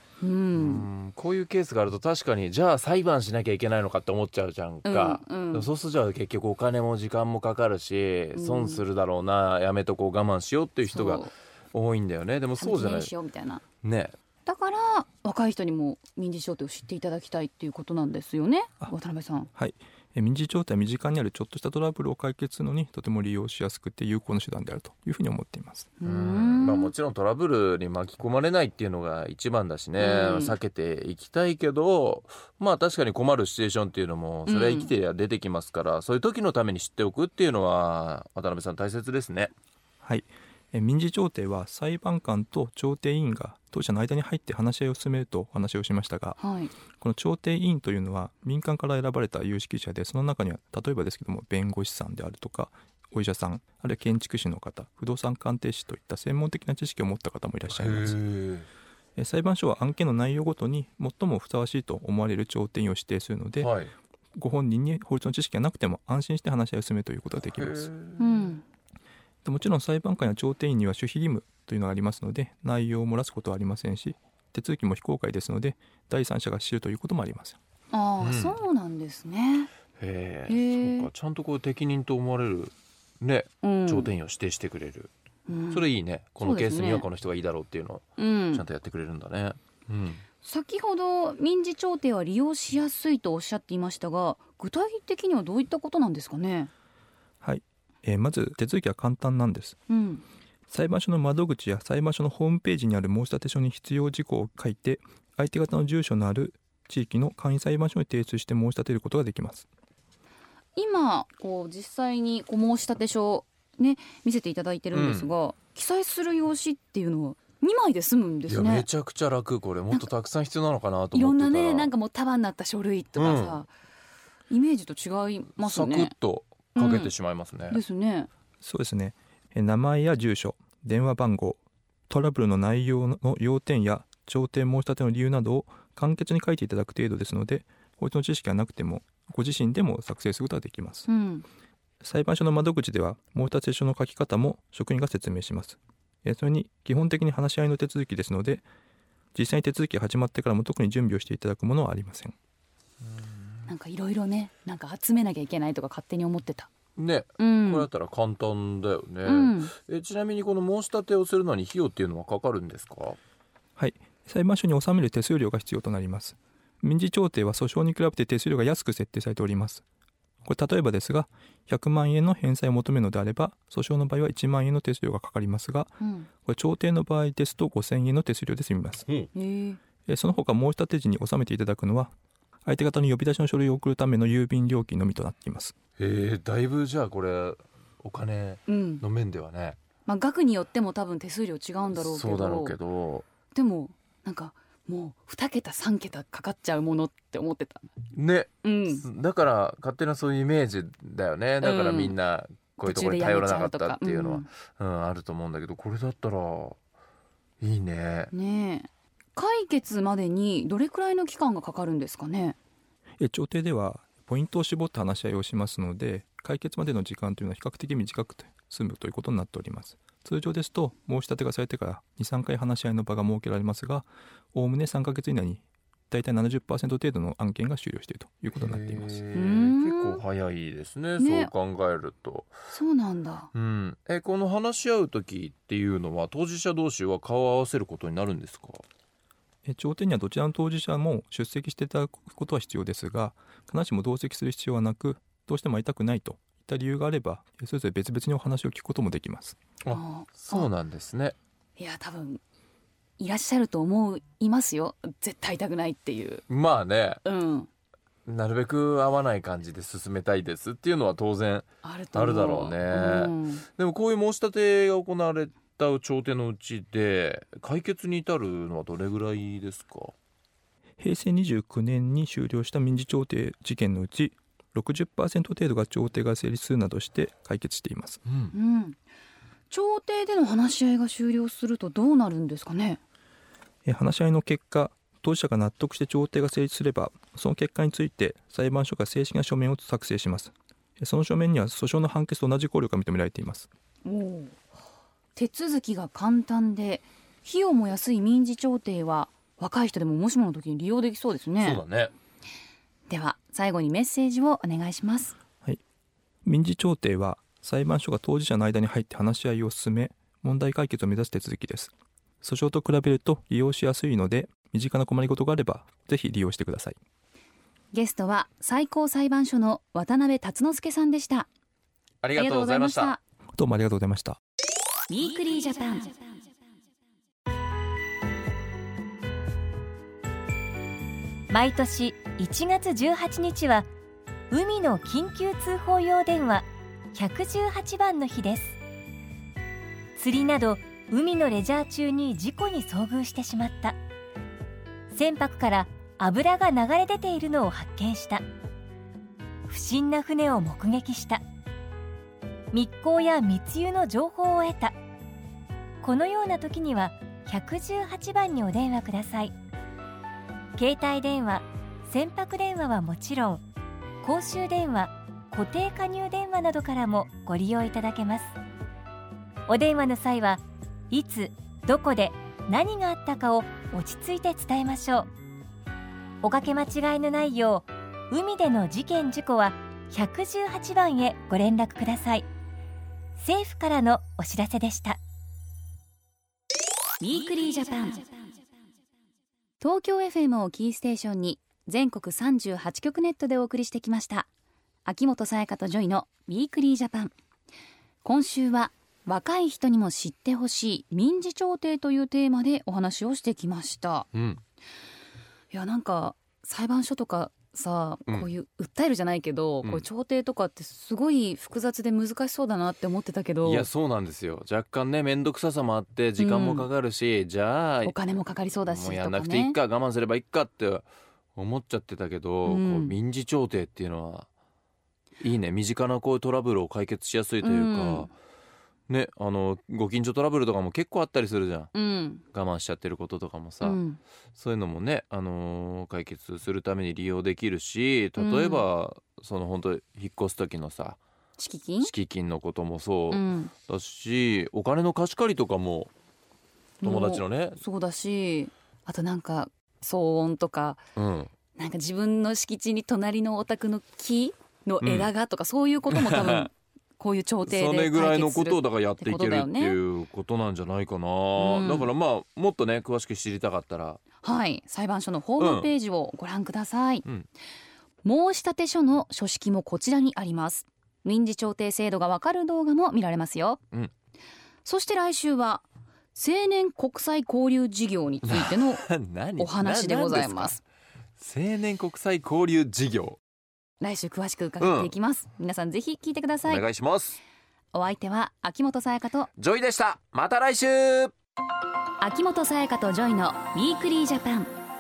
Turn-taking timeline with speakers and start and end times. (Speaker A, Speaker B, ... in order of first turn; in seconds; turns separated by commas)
Speaker A: 0.2-0.9, Speaker B: 0.6-13.1, Speaker A: 4.8-5.7, Speaker A: 8.3-8.8, Speaker A: 10.9-11.3, Speaker A: 12.6-13.6, Speaker B: 13.8-14.2, Speaker A: 14.5-19.5, Speaker C: 19.6-25.9, Speaker A: 26.0-26.9, Speaker B: 26.0-39.5, Speaker A: 30.0-30.6, Speaker A: 34.5-34.9, Speaker C: 40.0-46.4, Speaker A: 46.4-46.7, Speaker C: 47.0-58.2, Speaker B: 57.7-58.7, Speaker C: 59.2-63.7, Speaker B: 63.6-63.9, Speaker C: 64.4-67.9, Speaker B: 67.6-68.5, Speaker A: 68.2-68.6, Speaker C: 69.4-77.6, Speaker A: 77.9-79.7, Speaker B: 78.2-78.6, Speaker B: 80.0-85.1, Speaker A: 80.5-81.1, Speaker A: 83.6-84.1, Speaker A: 85.5-85.9, Speaker B: 85.7-90.2, Speaker A: 86.4-87.1, Speaker A: 88.2-88.7, Speaker A: 90.4-96.7, Speaker C: 97.4-99.8, Speaker A: 99.9-100.2, Speaker C: 100.7-109.7, Speaker A: 110.8-118.9, Speaker B: 114.9-115.3, Speaker B: 118.5-121.9, Speaker A: 121.1-123.7, Speaker B: 123.2-123.6, Speaker A: 124.5-126.2, Speaker B: 125.6-127.8, Speaker A: 126.8-127.1, Speaker A: 127.7-128.3, Speaker C: 128.6-141.1, Speaker A: 141.1-141.4, Speaker C: 142.0-148.7, Speaker C: 149.3-152.3, Speaker B: 153.0-153.7, Speaker A: 153.7-156.7, Speaker B: 157.0-163.2, Speaker A: 157.4-157.9, Speaker A: 159.2-159.7, Speaker C: 163.8-169.8, Speaker C: 170.4-179.1, Speaker A: 176.0-176.3, Speaker A: 179.3-179.8, Speaker C: 180.1-182.1, Speaker C: 182.7-185.8, Speaker B: 186.0-189.8, Speaker A: 188.7-189.0, Speaker A: 190.1-192.8, Speaker B: 191.9-193.3, Speaker A: 193.5-197.9, Speaker B: 198.1-206.8, Speaker A: 198.6-199.0, Speaker A: 201.6-202.2, Speaker A: 202.8-204.5, Speaker B: 207.6-208.3, Speaker A: 208.3-212.6, Speaker C: 213.2-229.2, Speaker B: 228.6-232.5, Speaker A: 229.3-230.2, Speaker A: 231.2-231.5, Speaker A: 232.7-233.5, Speaker B: 233.5-238.8, Speaker C: 239.7-249.6, Speaker B: 249.8-251.4, Speaker A: 249.9-250.7, Speaker A: 251.8-252.4, Speaker A: 253.2-256.4, Speaker B: 256.5-257.2, Speaker A: 257.2-257.7, Speaker B: 258.3-270.1, Speaker A: 261.8-263.7, Speaker C: 271.0-278.2, Speaker B: 278.3-278.5, Speaker A: 278.5-279.0, Speaker A: 279.7-283.0, Speaker C: 283.9-293.7, Speaker A: 294.1-294.6, Speaker A: 295.4-301.8, Speaker B: 301.6-302.1, Speaker A: 303.1-305.4, Speaker C: 306.4-317.0, Speaker A: 317.9-321.5, Speaker B: 322.2-323.2, Speaker A: 322.3-323.2, Speaker C: 323.6-324.4, Speaker A: 325.1-326.2, Speaker D: 331.5-333.9, Speaker D: 334.5-338.8, Speaker D: 340.2-344.0, Speaker D: 345.1-348.4, Speaker D: 349.7-351.4, Speaker D: 352.7-355.0, Speaker D: 356.0-359.6, Speaker D: 360.8-363.6, Speaker D: 364.2-368.5, Speaker D: 369.7-375.3, Speaker D: 376.4-382.5, Speaker D: 383.4-385.2, Speaker A: 387.2-388.3, Speaker A: 389.8-394.5, Speaker A: 395.1-397.3, Speaker A: 398.2-404.3, Speaker B: 404.3-404.6, Speaker A: 405.7-413.9, Speaker B: 413.6-418.2, Speaker A: 416.4-416.9, Speaker A: 418.0-419.8, Speaker B: 418.8-424.5, Speaker A: 422.6-423.1, Speaker B: 425.4-428.3, Speaker A: 427.6-428.3, Speaker B: 429.1-431.9, Speaker A: 431.9-432.4, Speaker B: 432.5-434.0, Speaker A: 433.8-434.2, Speaker B: 434.6-441.2, Speaker A: 438.4-438.9, Speaker A: 441.6-442.1, Speaker B: 442.0-446.1, Speaker A: 443.3-443.7, Speaker A: 447.0-451.0, Speaker B: 447.0-447.8, Speaker B: 451.2-451.5, Speaker A: 451.8-460.0, Speaker B: 455.0-455.3, Speaker B: 456.1-456.7, Speaker B: 457.6-464.2, Speaker A: 461.6-462.1, Speaker A: 464.4-467.3, Speaker B: 465.6-465.9, Speaker A: 468.2-473.8, Speaker A: 474.9-479.0, Speaker B: 478.4-480.8, Speaker A: 479.6-480.8, Speaker B: 481.4-483.4, Speaker A: 484.0-486.8, Speaker B: 484.8-485.1, Speaker B: 486.7-487.4, Speaker A: 487.9-489.5, Speaker B: 489.6-491.3, Speaker A: 492.2-494.7